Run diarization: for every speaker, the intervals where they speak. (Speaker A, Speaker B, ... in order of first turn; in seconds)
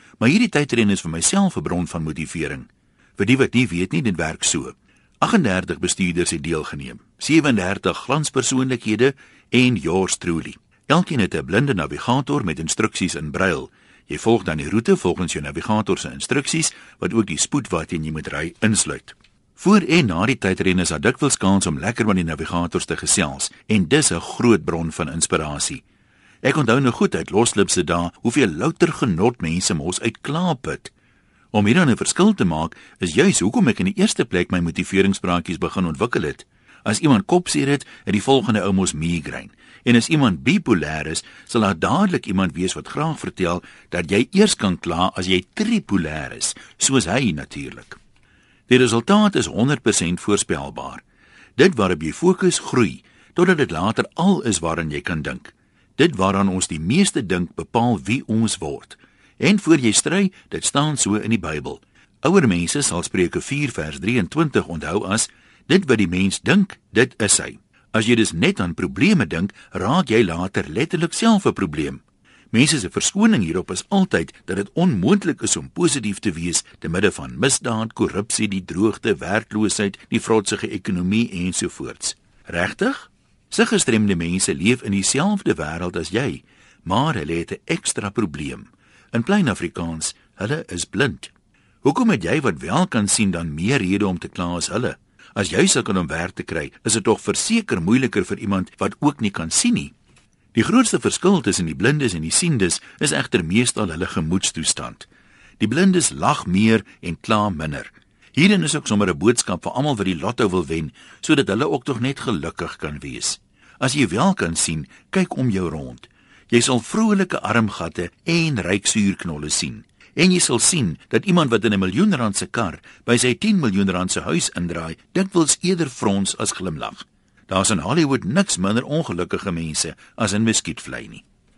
Speaker A: 0.2-25.8, 26.4-30.9, 31.5-48.0, 48.7-51.0, 51.6-91.3, 91.8-99.9, 100.5-105.1, 105.6-131.2